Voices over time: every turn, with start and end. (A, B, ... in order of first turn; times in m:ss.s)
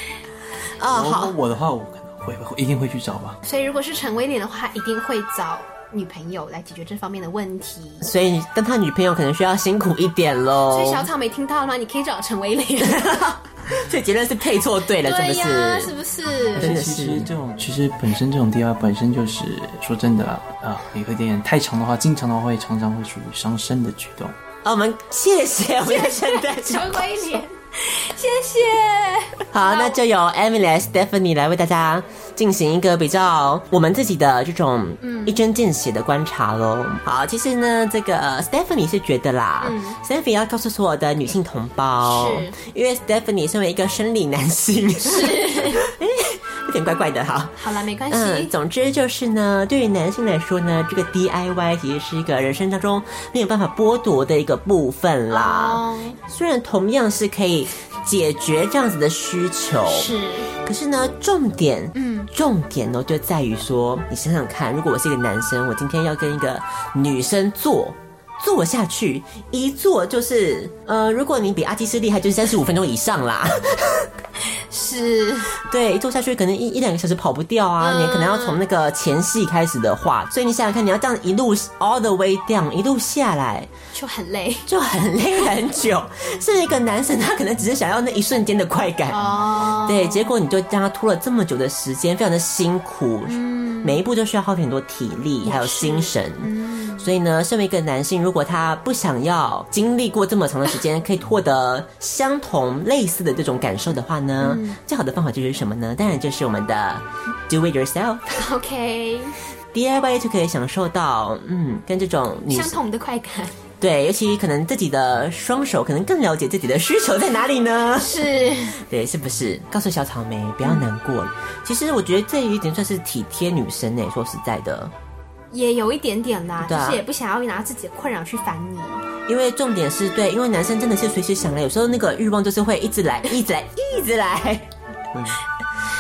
0:00.8-0:01.4 A
0:00.9-0:03.4 B
0:03.4-0:08.1 C
0:08.0-0:11.1 A
0:10.7-0:13.4 C
0:12.8-0:15.9 A
0:15.0-0:16.8 C
0:16.6-0:17.3 A
0:16.6-0:24.4 B
0:24.6-0:27.2 A
0:25.8-0:30.0 C
0:29.5-1:14.1 A
0:35.0-0:35.4 C
0:39.6-0:40.0 C
0:42.0-0:42.6 C
0:45.0-0:45.8 C
0:47.6-0:48.5 C
0:55.3-0:56.2 C
0:59.9-1:00.5 C
1:02.0-1:02.3 C
1:14.7-1:15.5 C
1:15.6-1:23.7 A
1:17.8-1:18.6 C
1:23.9-1:24.7 C
1:24.7-1:29.2 A
1:29.1-1:30.3 C
1:29.8-1:48.5 A
1:33.3-1:34.0 C
1:35.4-1:37.1 C
1:44.4-1:44.8 C
1:48.4-1:49.4 C
1:49.7-1:52.8 A
1:52.5-1:53.6 C
1:53.8-2:04.9 A
1:58.0-1:58.8 C
2:05.5-2:09.0 C
2:06.6-2:07.0 A
2:09.3-2:14.7 A
2:15.1-2:15.4 B